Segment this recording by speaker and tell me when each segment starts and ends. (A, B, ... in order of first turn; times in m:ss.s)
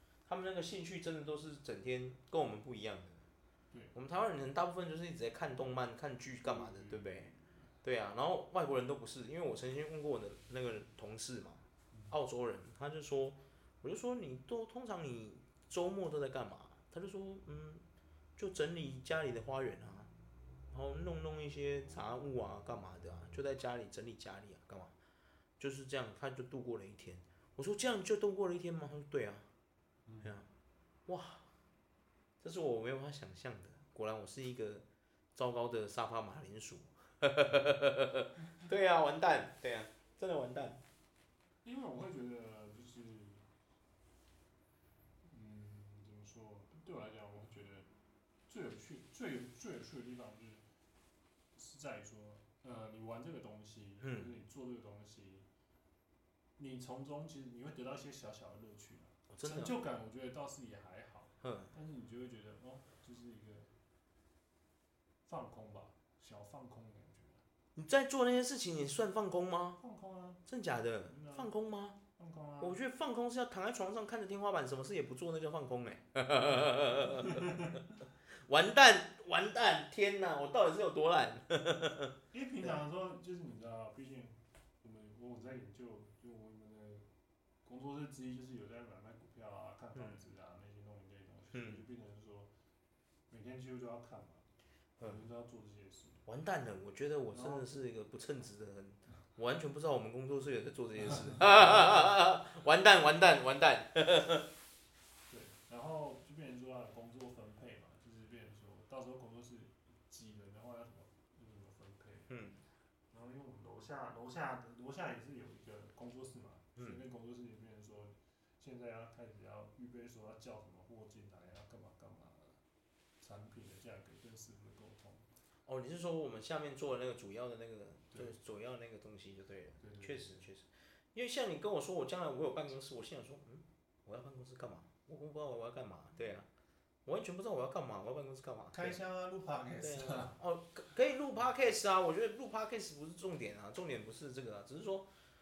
0:00.2-0:03.2 A
0:03.9-0:07.3 A
0:06.4-0:07.4 B
0:07.8-0:17.8 A
0:11.9-0:12.2 B
0:18.4-0:20.1 A
0:20.7-0:24.9 A
0:25.6-0:29.5 A
0:30.0-0:30.3 B
0:30.2-0:30.5 A
0:31.1-0:31.4 A
0:32.4-0:40.8 A
0:41.6-0:43.4 B
0:45.2-0:47.9 B
0:48.5-0:50.6 B
0:51.6-0:55.5 B
0:54.0-0:54.3 A
0:56.6-1:03.7 B
0:59.3-0:59.8 A
1:01.4-1:01.7 A
1:05.2-1:07.4 B
1:07.8-1:09.8 A
1:09.8-1:10.4 B
1:10.5-1:12.0 A
1:11.0-1:11.5 B
1:12.2-1:12.8 B
1:12.6-1:17.6 A
1:16.4-1:18.0 B
1:18.4-1:22.1 A
1:22.3-1:27.1 B
1:27.6-1:32.5 B
1:31.5-1:31.8 A
1:33.3-1:34.4 B
1:35.0-1:36.2 B
1:36.3-1:44.5 A
1:37.3-1:37.7 B
1:41.2-1:42.1 B
1:45.3-1:52.3 B
1:52.3-1:52.6 A
1:53.1-2:02.6 B
2:03.2-2:05.3 B
2:05.7-2:16.5 A
2:08.1-2:08.4 B
2:09.8-2:10.5 B
2:17.0-2:19.0 A
2:18.7-2:20.4 B
2:19.8-2:25.1 A